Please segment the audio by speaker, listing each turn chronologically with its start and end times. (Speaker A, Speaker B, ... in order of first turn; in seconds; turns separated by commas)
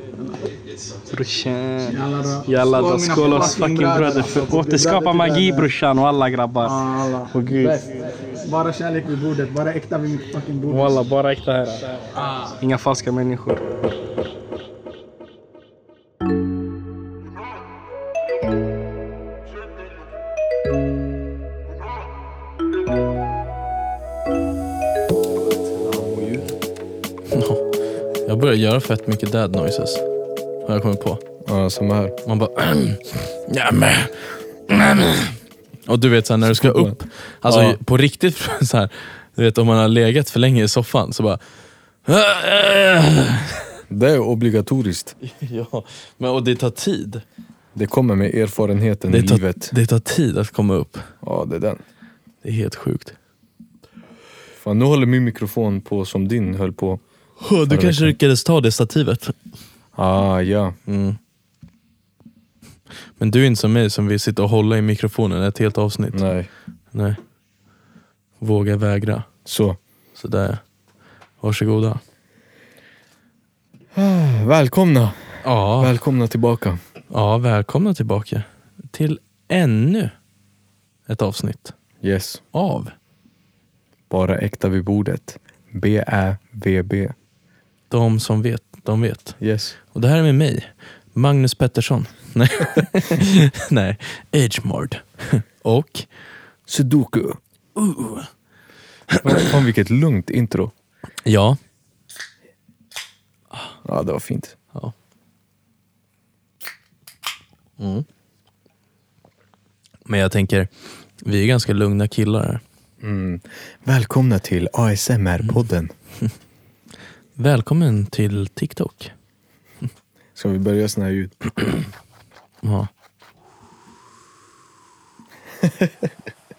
Speaker A: 1.1-7.8, Speaker B: 1.9-5.7, Speaker B: 6.7-11.0, Speaker A: 10.7-13.6, Speaker C: 25.7-26.5, Speaker D: 27.3-27.6, Speaker D: 28.2-30.0, Speaker D: 30.6-31.2, Speaker C: 31.4-32.2, Speaker D: 32.2-35.3, Speaker D: 35.9-41.4, Speaker C: 36.5-37.8, Speaker D: 42.0-43.6, Speaker C: 43.9-45.2, Speaker D: 45.2-47.2, Speaker C: 47.8-49.7, Speaker D: 49.1-51.1, Speaker C: 51.2-51.8, Speaker D: 52.4-53.2, Speaker C: 54.6-57.0, Speaker D: 57.4-59.3, Speaker C: 57.7-58.1, Speaker C: 60.0-60.8, Speaker D: 60.9-61.2, Speaker D: 63.2-66.2, Speaker C: 66.1-66.5, Speaker D: 68.4-69.3, Speaker C: 69.5-69.8, Speaker D: 70.2-70.6, Speaker D: 71.4-72.0, Speaker C: 73.9-75.2, Speaker D: 75.4-75.9, Speaker C: 75.8-76.8, Speaker D: 77.1-80.1, Speaker D: 81.1-81.8, Speaker C: 82.0-82.4, Speaker D: 82.5-82.9, Speaker C: 84.1-87.1, Speaker D: 87.9-89.4, Speaker C: 89.4-89.8, Speaker D: 89.9-96.1, Speaker C: 96.7-97.4, Speaker D: 97.8-98.3, Speaker D: 99.1-99.5, Speaker C: 99.2-100.7, Speaker D: 101.2-101.6, Speaker C: 103.8-104.6, Speaker D: 107.8-108.1, Speaker D: 110.1-110.7, Speaker D: 111.2-112.6, Speaker C: 113.0-115.9, Speaker D: 117.4-119.1, Speaker C: 120.3-121.4, Speaker D: 122.6-122.9, Speaker C: 125.6-125.9